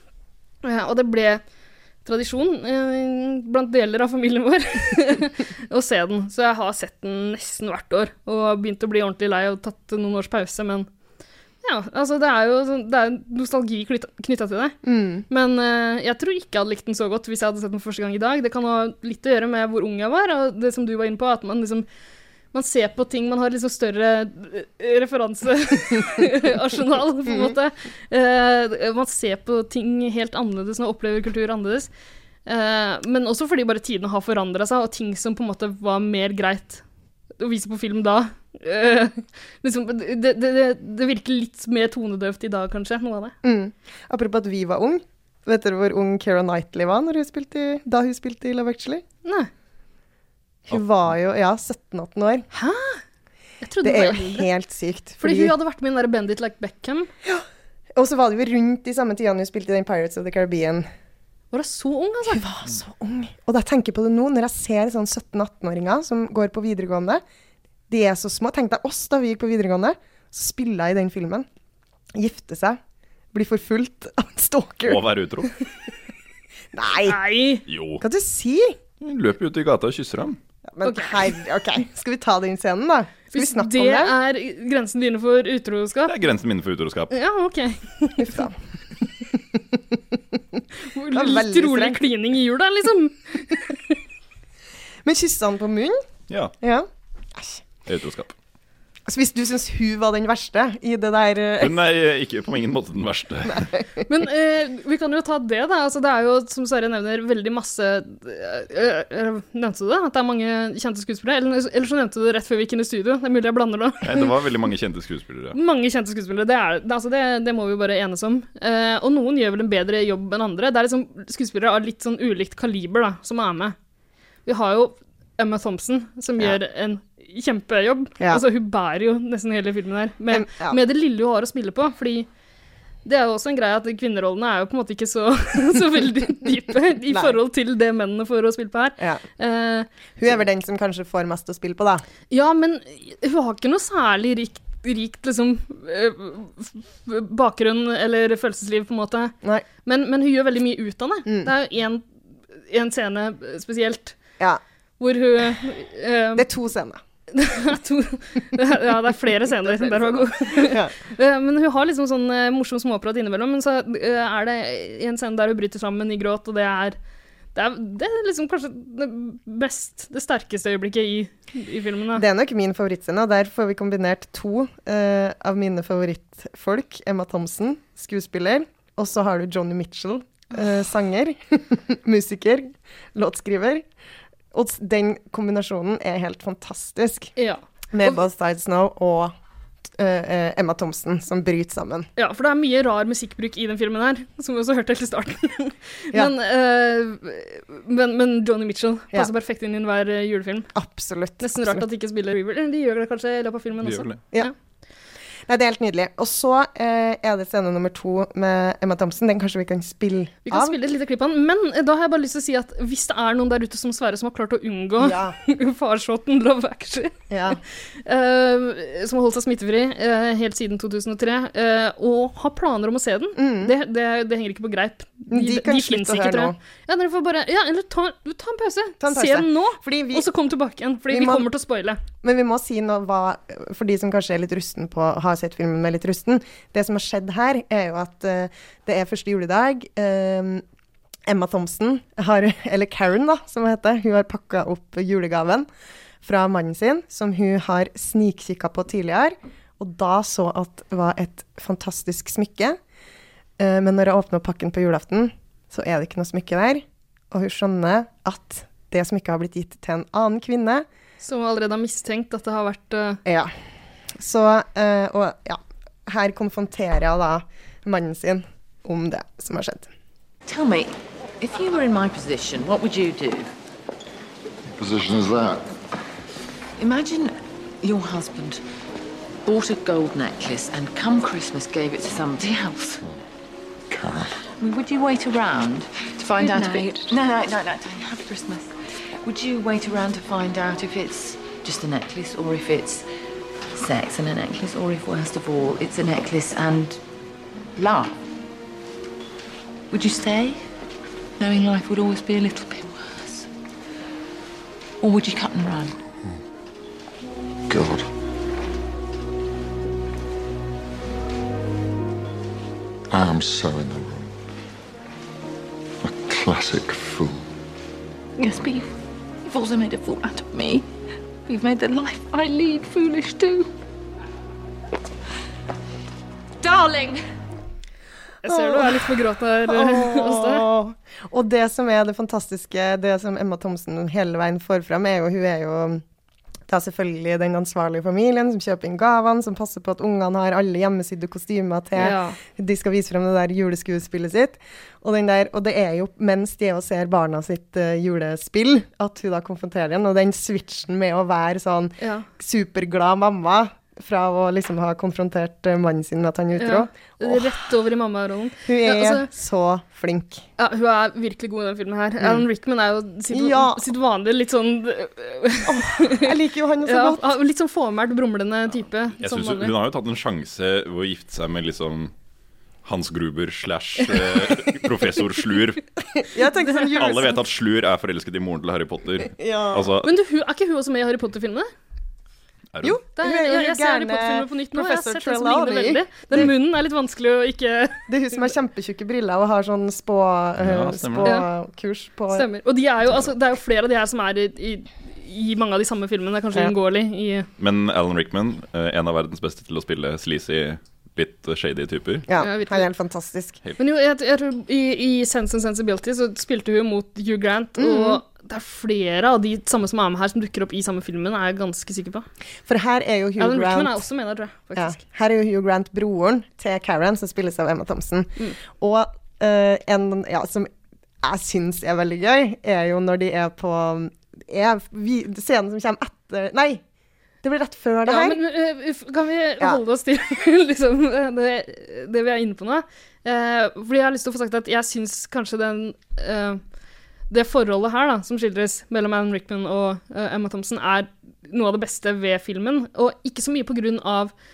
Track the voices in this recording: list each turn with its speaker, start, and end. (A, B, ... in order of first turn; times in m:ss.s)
0:00.6-0:01.4 A
0:02.0-0:10.9 A
0:11.6-0:14.8 A
0:14.8-0:15.2 B
0:15.3-0:21.9 A
0:22.5-0:31.9 A
0:27.3-0:27.6 B
0:32.5-0:36.8 A
0:37.4-0:43.4 A
0:43.4-0:49.0 B
0:49.2-0:49.5 A
0:50.7-0:52.5 B
0:52.5-0:53.0 A
0:53.6-0:54.5 A
0:53.8-0:55.5 B
0:55.2-0:57.1 A
0:57.2-1:00.9 B
1:01.5-1:02.4 A
1:02.3-1:07.2 B
1:07.9-1:11.5 B
1:12.2-1:12.8 B
1:13.3-1:15.1 B
1:14.9-1:15.5 C
1:16.7-1:17.2 B
1:17.1-1:17.6 A
1:17.7-1:18.0 C
1:18.0-1:18.8 B
1:19.0-1:20.4 C
1:20.7-1:24.1 B
1:20.8-1:21.3 A
1:23.3-1:26.2 A
1:26.1-1:27.1 C
1:27.1-1:28.4 A
1:28.2-1:28.6 B
1:30.9-1:34.0 A
1:31.1-1:32.0 B
1:35.0-1:36.0 B
1:36.3-1:36.5 C
1:36.6-1:37.6 B
1:37.9-1:38.3 C
1:39.1-1:41.8 B
1:41.6-1:43.7 C
1:43.5-1:44.0 B
1:44.1-1:54.3 A
1:54.0-1:55.6 C
1:55.5-2:03.8 A
2:04.5-2:12.3 A
2:10.3-2:10.8 B
2:13.0-2:19.9 A
2:17.1-2:17.4 B
2:19.0-2:19.2 B
2:20.2-2:22.0 B
2:22.3-2:32.1 A
2:31.3-2:31.5 B
2:32.7-2:34.2 A
2:35.0-2:36.5 A
2:36.4-2:37.0 B
2:37.3-2:47.0 A
2:39.5-2:41.0 B
2:47.6-2:52.2 A
2:52.2-3:03.9 B
3:04.5-3:07.3 B
3:07.4-3:08.2 A
3:07.9-3:09.4 B
3:10.0-3:12.1 B
3:12.2-3:20.7 A
3:20.7-3:21.8 B
3:21.4-3:24.5 A
3:23.8-3:24.2 C
3:25.5-3:30.8 B
3:30.5-3:52.0 A
3:35.0-3:35.4 B
3:37.3-3:37.6 B
3:43.4-3:43.7 B
3:45.3-3:46.6 B
3:49.0-3:50.3 B
3:51.1-3:51.5 B
3:52.2-4:00.6 B
4:01.3-4:05.7 B
4:06.2-4:12.8 B
4:13.6-4:20.9 B
4:21.2-4:23.2 A
4:23.2-4:23.6 B
4:24.2-4:29.9 B
4:30.5-4:33.5 D
4:34.8-4:35.7 E
4:36.8-4:38.6 D
4:39.5-4:43.0 D
4:43.9-4:44.3 E
4:44.6-4:53.1 D
4:53.7-4:57.0 D
4:57.8-4:58.2 D
4:59.9-5:00.6 D
5:01.4-5:03.5 D
5:05.0-5:06.0 D
5:07.7-5:08.1 E
5:13.1-5:14.3 E
5:16.0-5:17.4 E
5:18.4-5:18.9 D
5:19.4-5:20.9 D
5:21.5-5:23.7 D
5:26.6-5:27.2 D
5:28.4-5:30.7 A
5:28.5-5:36.0 B
5:36.7-5:57.6 B
5:42.0-5:42.4 A
5:52.0-5:52.3 A
5:56.6-5:59.3 A
5:58.7-6:00.4 B
6:00.6-6:06.3 A
6:03.3-6:03.9 B
6:05.6-6:07.3 B
6:06.8-6:09.7 A
6:09.2-6:12.1 C
6:12.8-6:15.8 C
6:16.2-6:17.4 B
6:16.4-6:17.2 A
6:17.0-6:20.1 C
6:19.4-6:19.9 B
6:20.0-6:21.7 A
6:22.7-6:23.0 C
6:22.8-6:26.5 B
6:23.2-6:28.4 A
6:28.1-6:32.5 B
6:30.6-6:31.3 C
6:32.3-6:37.5 A
6:37.6-6:42.3 C
6:42.3-6:43.6 B
6:42.4-6:42.9 A
6:43.8-6:52.3 A
6:47.8-6:48.2 B
6:52.7-6:54.0 B
6:53.4-6:55.0 A
6:54.8-7:00.7 B
7:01.2-7:06.8 B
7:07.4-7:08.4 B
7:08.1-7:16.6 A
7:17.3-7:24.3 A